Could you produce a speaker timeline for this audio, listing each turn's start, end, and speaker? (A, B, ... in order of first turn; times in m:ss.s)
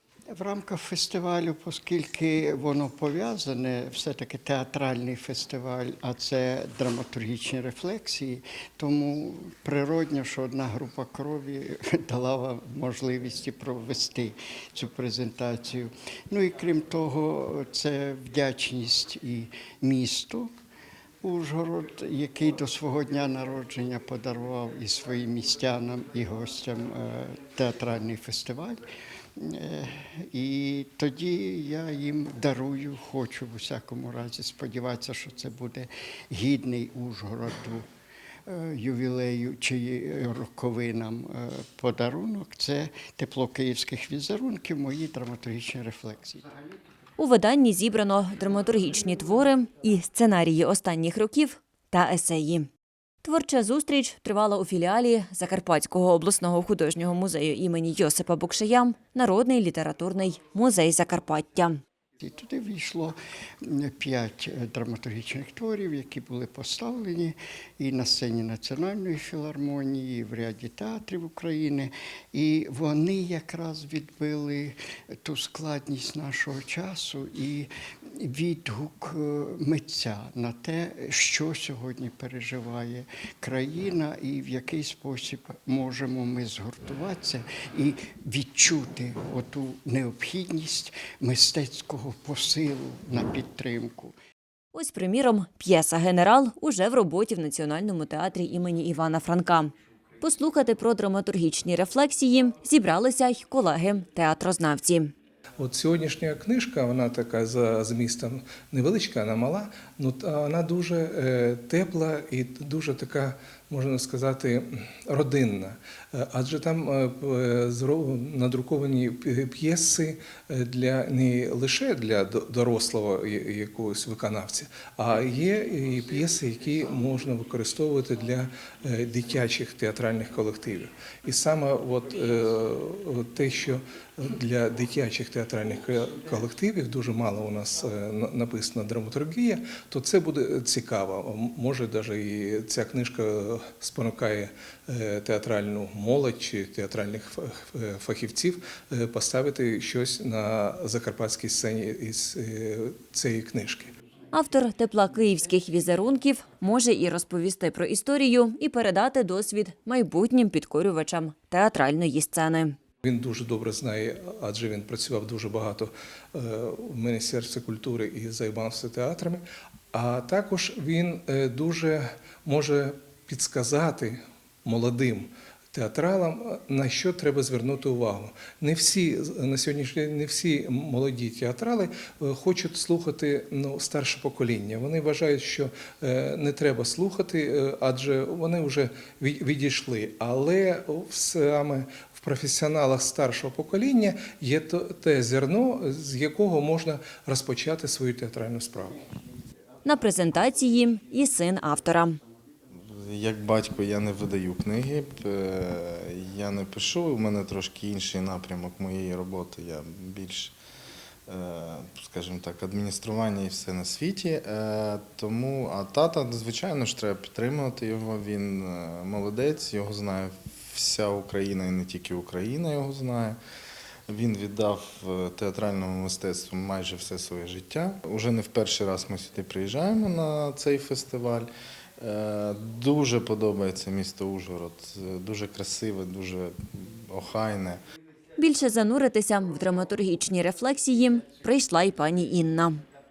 0:00.3-0:20.5 A
0:21.2-0:28.8 A
0:29.4-0:37.8 A
0:38.4-0:46.5 A
0:47.2-0:52.7 B
0:53.2-1:01.8 B
1:02.2-1:34.2 A
1:34.7-1:45.1 B
1:45.6-2:33.9 C
2:34.3-2:42.8 B
2:43.0-3:19.0 C
3:19.8-3:22.2 B
3:22.9-3:30.5 D
3:31.3-3:43.4 D
3:44.1-3:57.8 D
3:58.4-4:02.8 B